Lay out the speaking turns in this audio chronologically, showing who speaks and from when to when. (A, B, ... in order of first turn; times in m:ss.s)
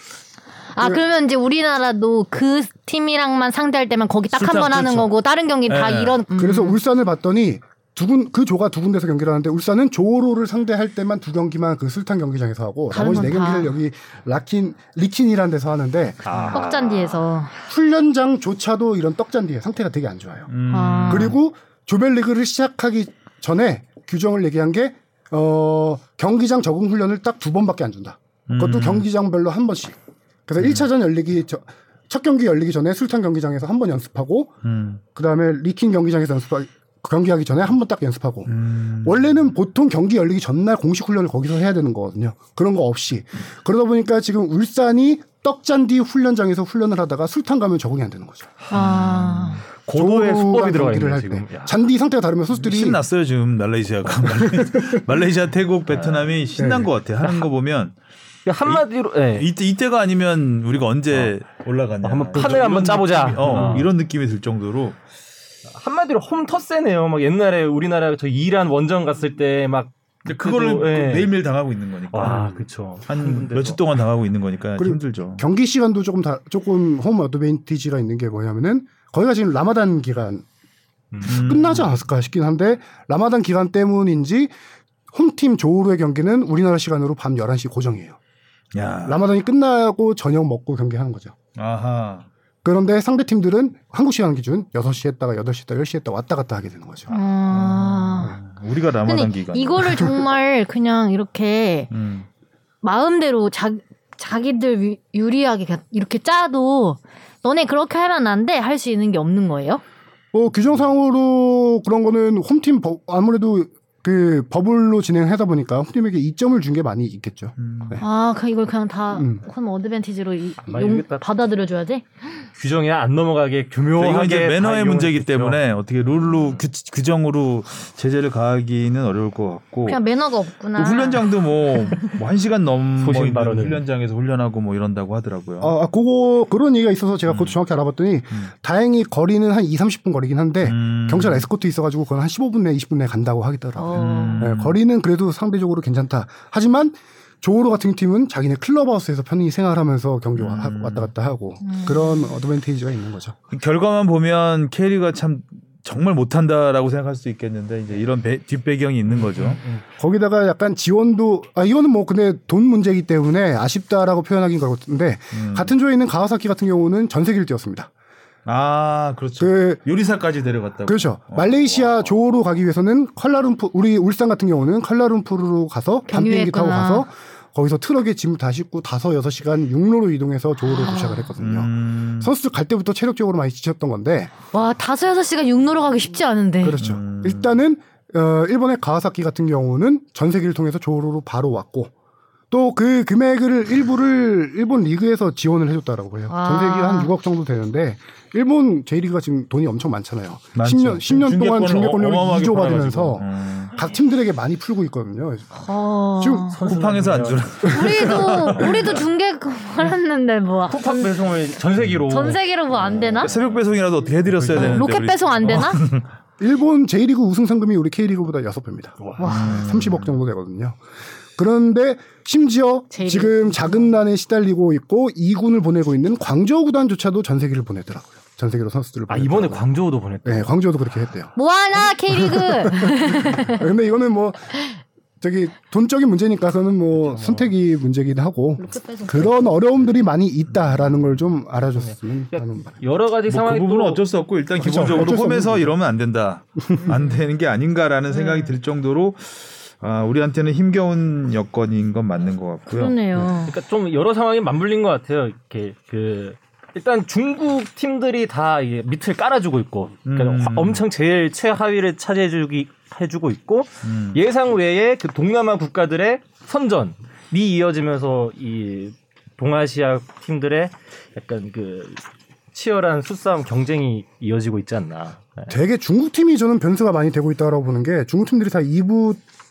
0:00.7-0:06.8 A
0:04.3-0:05.1 B
0:05.7-0:06.2 B
0:06.3-0:16.6 C
0:12.9-0:13.7 A
0:16.2-0:17.2 D
0:16.5-0:17.5 A
0:17.7-0:20.5 C
0:20.5-0:21.3 B
0:20.7-0:21.4 A
0:21.1-0:34.5 C
0:28.5-0:29.0 B
0:30.6-0:30.9 B
0:34.6-0:35.0 B
0:35.1-0:48.5 C
0:38.5-0:39.2 B
0:48.7-0:49.6 A
0:48.7-0:49.6 B
0:49.8-0:51.7 D
0:49.9-0:53.0 C
0:52.6-0:57.9 B
0:54.4-0:54.9 C
0:55.9-0:56.5 D
0:56.6-0:56.9 C
0:57.2-0:57.5 D
0:58.4-0:59.5 D
0:58.6-1:05.0 B
1:02.0-1:03.9 D
1:05.6-1:11.3 D
1:10.2-1:15.4 B
1:12.1-1:13.8 D
1:14.8-1:20.4 C
1:21.1-1:21.4 D
1:21.2-1:21.9 B
1:21.2-1:24.5 C
1:25.1-1:28.2 C
1:28.7-1:29.2 B
1:29.0-1:31.3 C
1:31.5-1:32.3 B
1:32.6-1:37.1 C
1:37.1-1:38.4 A
1:37.5-1:40.1 B
1:39.0-1:41.9 A
1:41.9-1:42.3 B
1:42.8-1:49.8 A
1:50.3-1:58.0 C
1:57.6-1:58.0 B
1:58.0-2:02.0 A
1:59.1-1:59.4 C
2:00.6-2:01.2 D
2:02.6-2:05.6 D
2:04.0-2:10.0 B
2:09.9-2:11.2 A
2:10.8-2:15.7 B
2:13.0-2:13.8 D
2:15.6-2:33.4 C
2:17.3-2:17.6 B
2:20.6-2:21.5 B
2:23.8-2:24.5 A
2:24.0-2:24.8 B
2:30.3-2:31.1 B
2:31.6-2:32.4 A
2:33.5-2:39.6 B
2:39.0-2:39.8 D
2:40.0-2:47.9 C
2:45.3-2:45.7 B
2:48.4-2:52.1 B
2:49.4-2:49.8 C
2:50.9-3:04.3 C
2:56.1-2:57.0 A
3:00.6-3:01.3 A
3:01.4-3:02.3 B
3:04.5-3:06.8 A
3:06.6-3:11.9 C
3:06.8-3:07.6 B
3:12.5-3:25.6 C
3:16.3-3:17.1 A
3:20.6-3:23.7 B
3:25.5-3:26.6 A
3:26.2-3:26.5 C
3:26.5-3:27.5 D
3:26.6-3:29.0 B
3:27.6-3:31.1 A
3:30.7-3:33.5 D
3:32.1-3:33.3 A
3:33.2-3:36.0 B
3:34.5-3:35.8 A
3:36.4-3:40.8 C
3:39.0-3:39.3 D
3:39.2-3:39.6 A
3:39.2-3:40.2 B
3:41.4-3:49.6 C
3:42.9-3:43.9 A
3:49.1-3:50.5 D
3:50.2-3:54.5 C
3:51.3-3:53.6 A
3:55.2-4:02.8 C
3:56.9-3:57.5 D
3:58.6-3:59.5 A
4:00.6-4:01.1 B
4:01.8-4:04.0 D
4:03.3-4:13.0 B
4:04.6-4:05.7 C
4:06.8-4:07.2 A
4:08.1-4:08.5 A
4:12.7-4:13.5 A
4:13.4-4:32.0 D
4:20.0-4:20.8 B
4:23.8-4:24.2 B
4:32.5-4:35.6 D
4:35.5-4:39.2 C